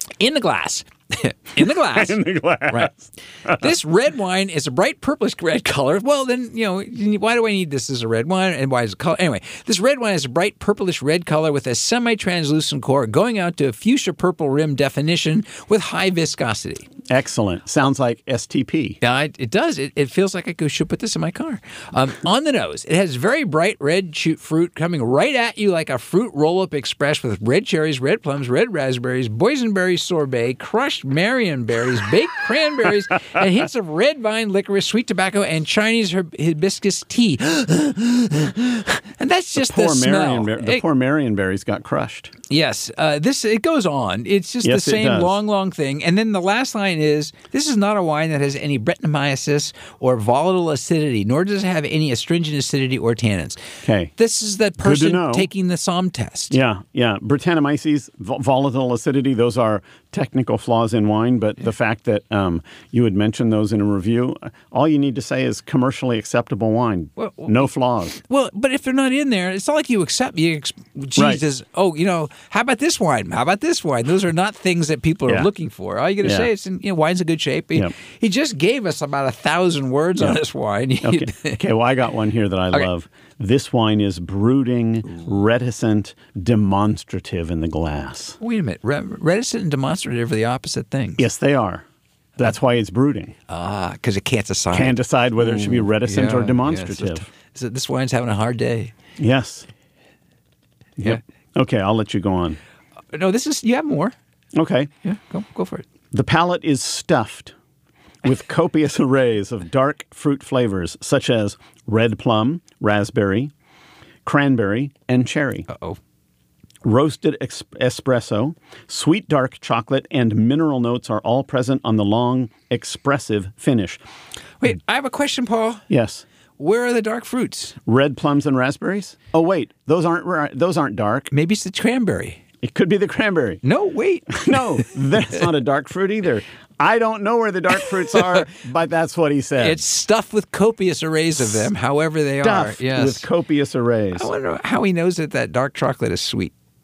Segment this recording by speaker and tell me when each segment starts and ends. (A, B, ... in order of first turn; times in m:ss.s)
0:00.2-0:02.2 A
0:01.6-0:03.6 B
0:03.5-0:16.9 A
0:17.1-0:19.0 B
0:19.0-0:40.8 A
0:39.6-0:42.3 B
0:42.5-0:53.6 A
0:44.6-0:45.4 B
0:53.8-0:54.1 B
0:54.2-0:56.6 A
0:54.8-0:55.5 B
0:56.5-1:08.2 B
1:07.2-1:21.6 A
1:11.2-1:11.4 B
1:16.2-1:16.5 B
1:21.0-1:28.4 B
1:28.4-1:31.3 A
1:31.2-1:31.8 B
1:32.4-1:33.3 B
1:33.5-1:38.9 A
1:34.7-1:37.3 B
1:39.2-1:39.7 B
1:41.0-1:42.6 B
1:43.1-1:44.2 A
1:44.6-1:44.9 B
1:45.0-1:45.9 A
1:46.1-1:47.5 B
1:48.2-1:53.5 B
1:54.2-1:55.7 B
1:55.7-1:56.0 A
1:56.8-2:04.0 B
2:04.6-2:05.9 A
2:05.9-2:06.2 B
2:06.6-2:07.8 A
2:07.9-2:11.3 B
2:11.3-2:12.4 A
2:12.6-2:13.6 B
2:13.6-2:15.4 A
2:14.3-2:19.8 B
2:19.6-2:23.3 A
2:22.4-2:24.3 B
2:24.2-2:26.5 A